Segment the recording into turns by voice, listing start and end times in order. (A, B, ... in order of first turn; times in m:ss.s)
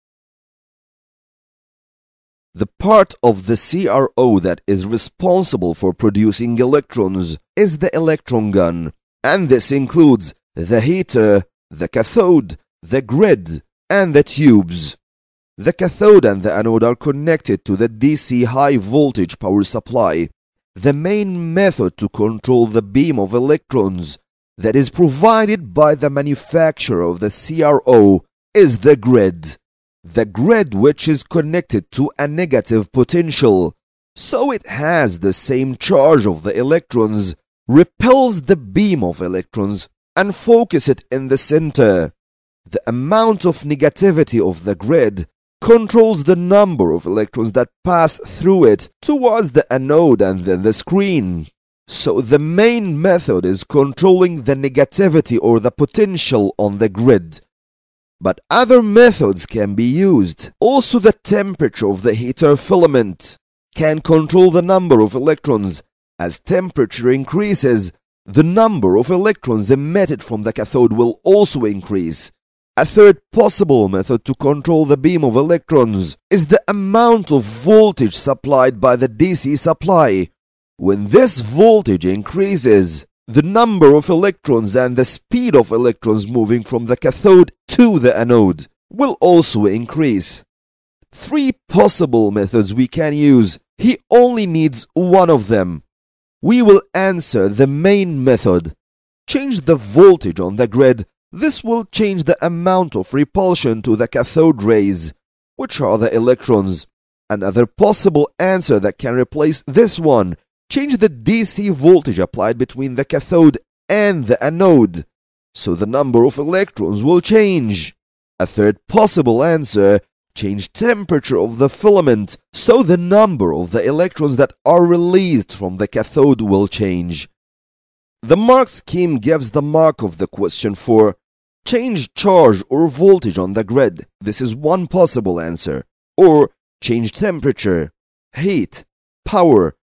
0:02.5-0:15.0 A
0:15.6-0:42.1 A
0:42.7-0:57.4 A
0:58.2-1:30.4 A
1:31.1-1:35.8 A
1:36.4-1:38.8 A
1:39.3-2:07.3 A
2:08.2-2:19.8 A